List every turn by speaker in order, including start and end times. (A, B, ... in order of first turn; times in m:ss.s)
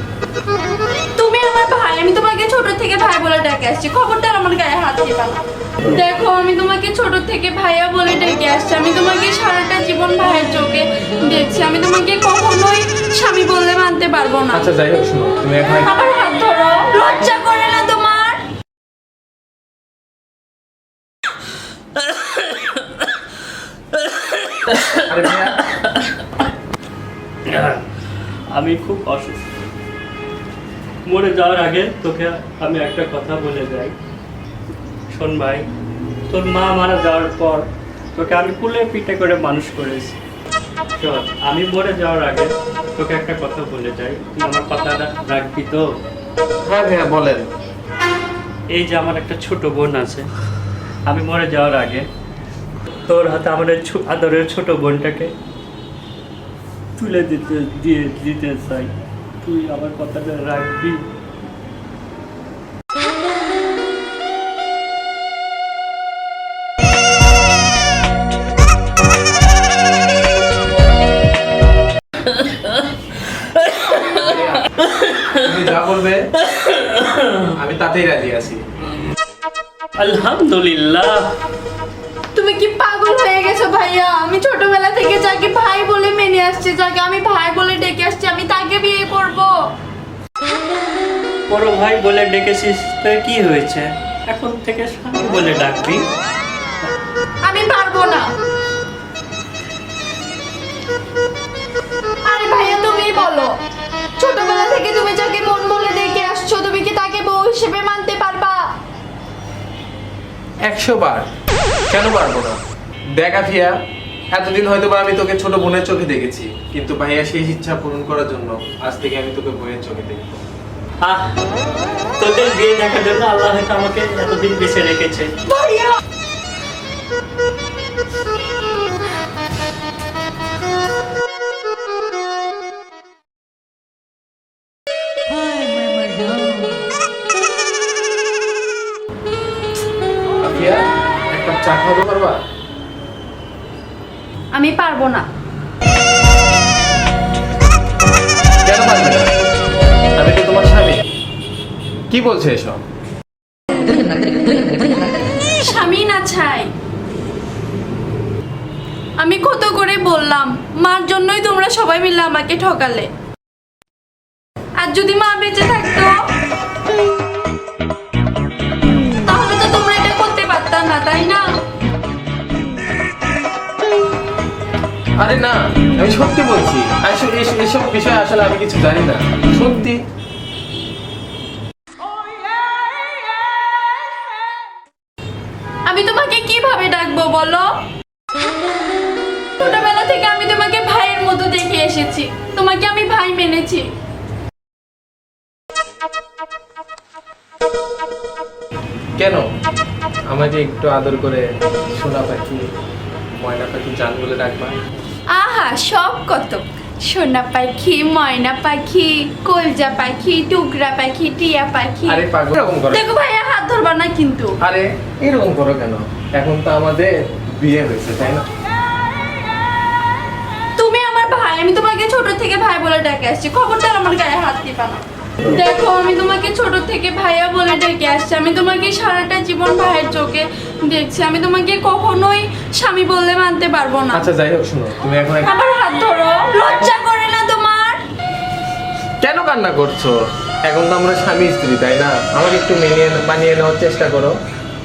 0:01.1-0:14.7 A
0:14.5-0:15.9 B
0:15.8-0:18.4 A
0:24.6-0:24.9 C
0:25.0-0:25.6 B
0:27.4-0:27.8 C
0:28.5-0:29.4 C
0:31.0-0:33.9 C
0:35.1-0:35.6 C
0:36.3-0:40.2 C
0:41.0-0:45.9 C
0:46.6-0:47.5 B
0:48.7-0:50.3 C
0:51.0-0:52.1 C
0:53.1-0:55.3 C
0:57.0-1:01.0 C
1:13.8-1:14.1 C
1:14.1-1:14.7 B
1:14.8-1:15.3 C
1:15.3-1:16.3 B
1:16.5-1:17.5 C
1:17.5-1:18.6 B
1:20.0-1:21.3 C
1:22.3-1:29.5 A
1:31.5-1:36.0 C
1:37.4-1:38.2 A
1:42.2-1:43.5 A
1:44.2-1:48.6 A
1:50.6-1:51.3 B
1:51.9-1:52.6 B
1:53.2-1:53.8 B
1:54.3-2:00.4 B
2:01.0-2:01.4 C
2:02.2-2:05.3 C
2:05.5-2:06.0 A
2:20.4-2:22.4 B
2:24.5-2:25.3 A
2:28.6-2:29.3 B
2:30.2-2:31.0 B
2:32.1-2:32.8 B
2:35.6-2:36.7 A
2:39.2-2:43.1 A
2:44.8-2:46.1 A
2:49.2-2:51.4 A
2:55.2-3:00.0 B
3:05.8-3:07.7 A
3:09.6-3:13.8 A
3:19.2-3:19.4 B
3:20.3-3:22.6 B
3:23.4-3:24.8 B
3:25.3-3:32.2 A
3:32.0-3:33.0 B
3:32.9-3:34.5 A
3:34.6-3:38.4 B
3:40.8-3:54.3 A
3:54.1-3:55.5 B
3:55.3-3:58.0 A
3:56.7-3:56.9 B
3:59.2-4:04.4 B